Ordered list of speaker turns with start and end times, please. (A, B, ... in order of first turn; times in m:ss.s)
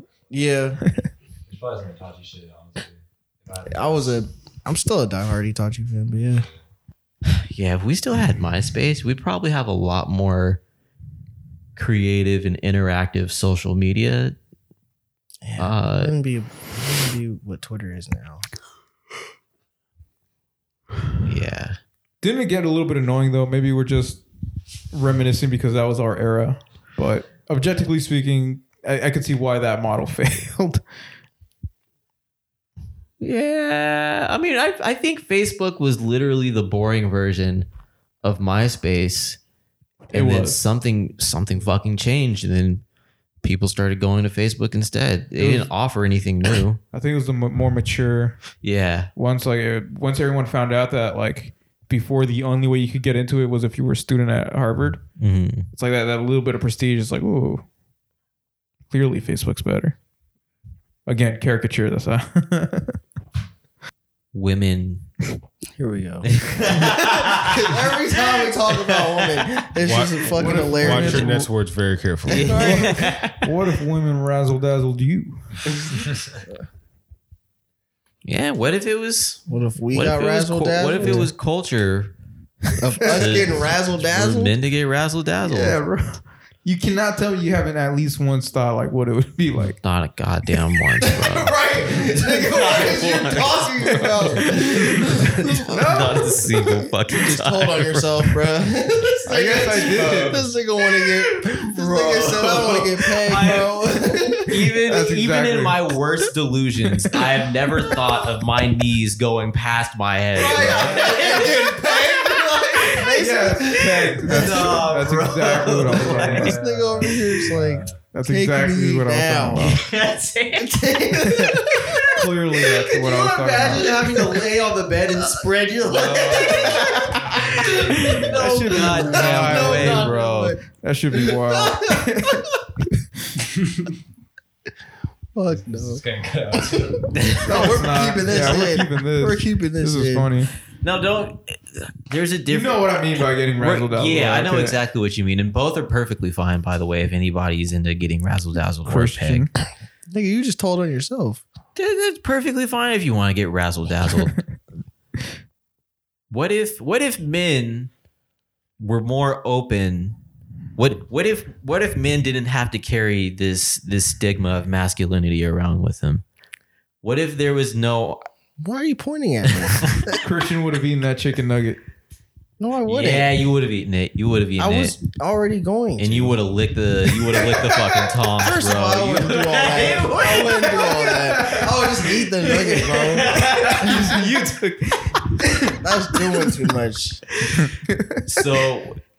0:00.3-0:00.8 A
0:01.5-0:04.2 B
0:03.7-0:06.5 A
0:07.3-0:10.6 C
0:11.8-0:14.4 C
0:15.4-0:18.5 A
0:15.6-0:16.2 C
0:21.2-0:21.8 C
0:22.2-0:24.2 D
0:24.9-0:30.8 D
0:33.2-0:37.7 C
0:38.2-0:39.4 C
0:40.1-0:40.6 D
0:40.1-0:42.8 C
0:43.4-0:46.8 C
0:45.4-0:45.7 D
0:46.9-0:48.4 D
0:48.6-0:49.1 C
0:49.2-0:55.0 D
0:55.2-0:55.7 C
0:55.7-0:57.6 D
0:58.9-1:00.0 D
1:01.1-1:03.0 D
1:04.3-1:05.1 C
1:05.8-1:11.4 A
1:06.2-1:09.5 C
1:09.8-1:12.8 E
1:10.3-1:11.5 D
1:12.3-1:13.4 C
1:12.4-1:13.2 A
1:12.9-1:15.6 D
1:18.2-1:22.2 C
1:19.5-1:21.3 A
1:21.0-1:21.3 D
1:22.8-1:24.5 A
1:23.0-1:25.8 C
1:25.5-1:29.8 D
1:29.8-1:31.6 C
1:31.0-1:44.5 A
1:32.1-1:38.4 C
1:35.7-1:36.3 D
1:39.3-1:40.5 D
1:39.7-1:40.4 C
1:41.4-1:43.7 C
1:44.5-1:53.1 C
1:44.8-1:45.8 D
1:50.3-1:54.8 A
1:50.6-1:51.4 B
1:53.2-1:56.6 D
1:54.2-1:57.3 C
1:55.9-1:58.1 B
1:56.2-1:59.8 A
1:58.1-1:59.8 D
1:59.6-2:00.8 C
2:00.6-2:02.2 A
2:01.3-2:03.9 D
2:02.9-2:10.6 A
2:03.3-2:07.2 C
2:06.0-2:08.5 B
2:07.8-2:10.6 C
2:08.0-2:10.1 D
2:10.7-2:12.5 D
2:11.2-2:12.4 A
2:15.4-2:20.3 A
2:15.5-2:17.5 B
2:17.4-2:20.5 D
2:20.8-2:29.5 C
2:22.5-2:24.8 D
2:28.9-2:29.5 D
2:30.1-2:31.4 A
2:31.8-2:34.4 C
2:36.3-2:37.9 C
2:38.8-2:40.2 C
2:40.8-2:46.2 C
2:47.0-2:48.2 C
2:48.6-2:50.2 A
2:50.1-2:51.8 D
2:52.6-2:53.4 A
2:52.8-2:55.0 C
2:54.6-2:56.4 A
2:56.0-3:01.2 C
2:58.3-3:04.3 A
3:01.3-3:01.6 D
3:02.4-3:04.3 C
3:03.3-3:05.3 D
3:05.6-3:07.3 A
3:07.6-3:08.4 D
3:08.3-3:09.0 C